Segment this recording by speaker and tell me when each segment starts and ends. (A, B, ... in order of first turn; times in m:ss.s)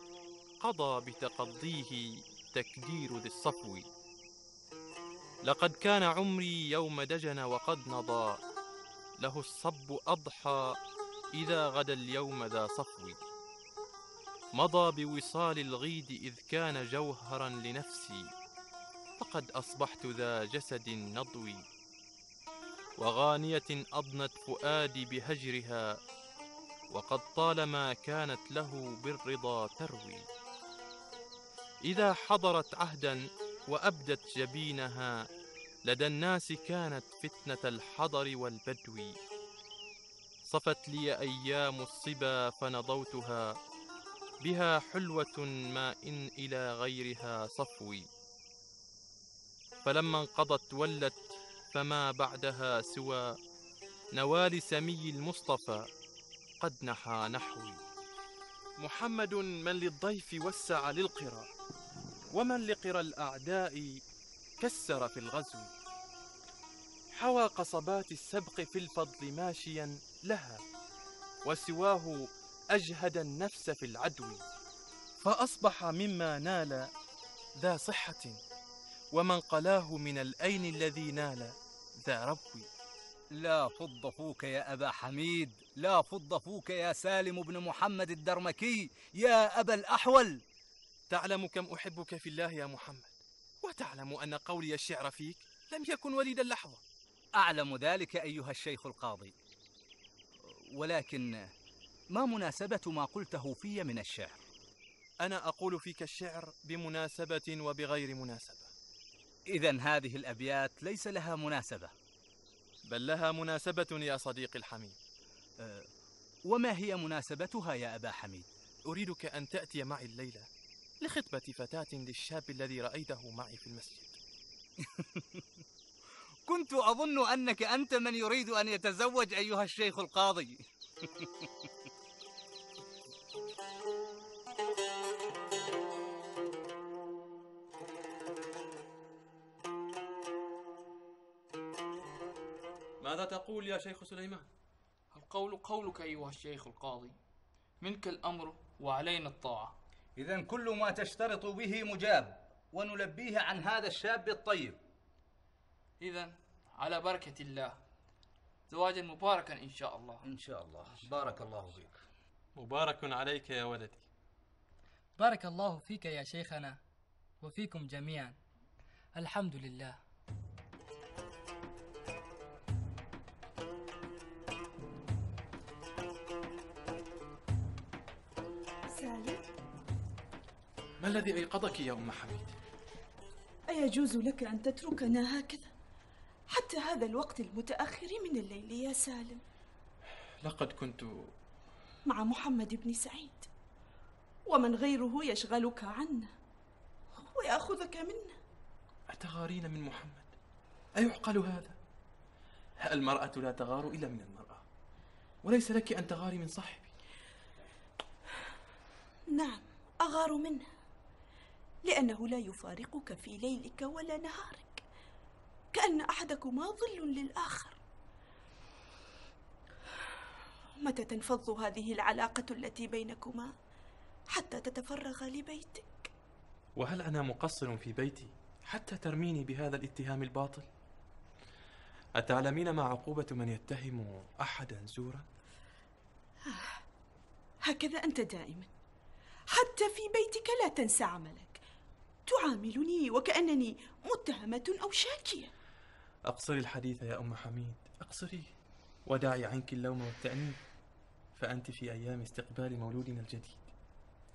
0:00.6-0:03.9 A
0:05.4-0:08.4 A
0:09.2-0:10.8 A
0:11.3-0:13.2 A
0:14.6-0:18.3 A
0:19.2-0:21.7 A
0:23.0-0:25.9 A
0:26.9-0:30.2 A
0:31.8-0:35.2 A
0:35.9-0:39.2 A
0:40.5-0:43.6 A
0:44.4-0:48.1 A
0:49.8-0:51.2 A
0:51.7-0:53.3 A
0:54.2-0:55.9 A
0:56.6-0:57.8 A
0:58.8-1:01.5 A
1:02.3-1:03.9 A
1:04.6-1:05.7 A
1:07.1-1:10.6 A
1:11.4-1:12.2 A
1:12.7-1:14.4 A
1:15.2-1:16.9 A
1:17.6-1:18.4 A
1:19.1-1:21.6 A
1:22.1-1:22.7 A
1:23.4-1:30.4 B
1:31.1-1:36.8 A
1:37.4-1:39.3 B
1:40.5-1:41.5 B
1:42.1-1:44.4 B
1:45.2-1:48.7 A
1:49.5-1:51.9 B
1:52.9-1:55.0 A
1:55.6-1:55.9 B
1:56.5-1:58.5 B
1:58.9-2:00.5 A
2:01.0-2:04.2 A
2:06.5-2:11.3 B
2:23.0-2:24.5 A
2:25.1-2:27.2 C
2:27.8-2:29.7 C
2:30.2-2:34.8 B
2:36.0-2:37.8 C
2:38.7-2:40.2 C
2:40.2-2:41.9 B
2:42.6-2:44.1 A
2:45.2-2:46.8 D
2:47.4-2:48.4 D
2:49.2-2:50.0 D
2:58.9-2:59.5 E
3:01.0-3:02.6 A
3:03.7-3:05.7 E
3:06.5-3:09.4 E
3:10.4-3:11.3 A
3:12.1-3:13.5 E
3:14.5-3:16.3 E
3:17.2-3:18.4 E
3:19.1-3:20.3 A
3:21.0-3:21.8 A
3:22.8-3:24.6 A
3:25.4-3:26.9 A
3:29.3-3:30.7 E
3:31.9-3:34.8 E
3:35.7-3:37.8 E
3:40.8-3:43.5 E
3:44.3-3:46.1 E
3:46.8-3:50.7 A
3:52.2-3:55.2 A
3:56.5-3:56.8 E
3:57.7-3:58.7 E
3:59.5-4:01.6 E
4:02.3-4:05.5 E
4:06.3-4:08.5 A
4:09.1-4:10.6 A
4:11.4-4:13.7 A